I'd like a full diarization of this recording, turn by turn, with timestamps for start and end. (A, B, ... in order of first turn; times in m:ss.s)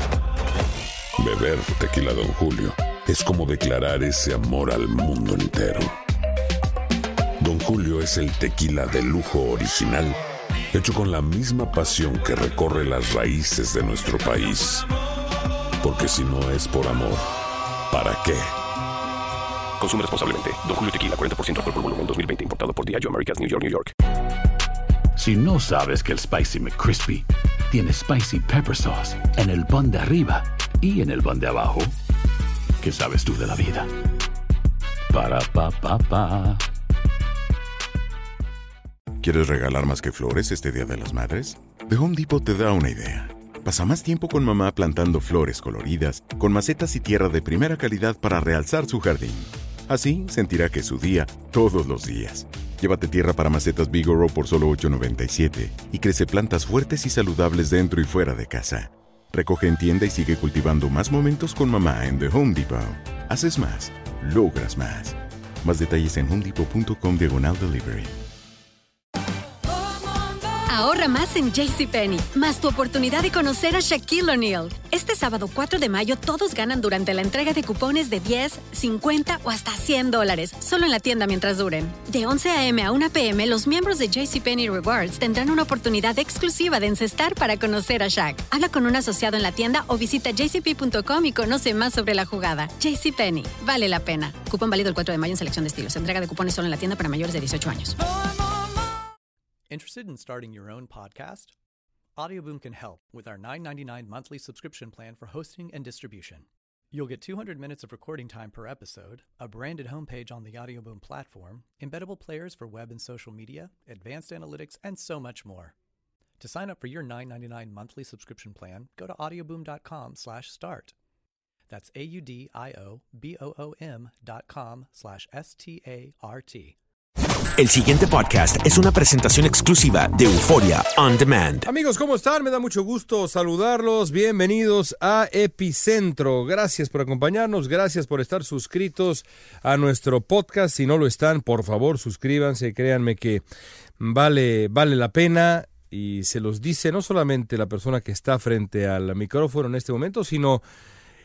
0:01.2-0:05.9 A
0:07.4-0:10.2 A
0:10.7-0:14.9 A
0:15.8-0:17.3 A
0:17.9-0:18.5 A
0:19.8-0:23.9 B
0:25.1-0:31.9 C
0:32.8-0:33.9 C
0:35.1-0:36.6 C
0:39.2-1:08.2 D
1:10.6-1:38.0 E
1:39.7-1:41.5 F
1:42.2-1:55.7 F
1:56.4-2:00.9 F
2:01.7-2:06.8 F
2:07.6-2:11.6 G
2:11.6-2:23.4 H
2:24.0-2:30.6 H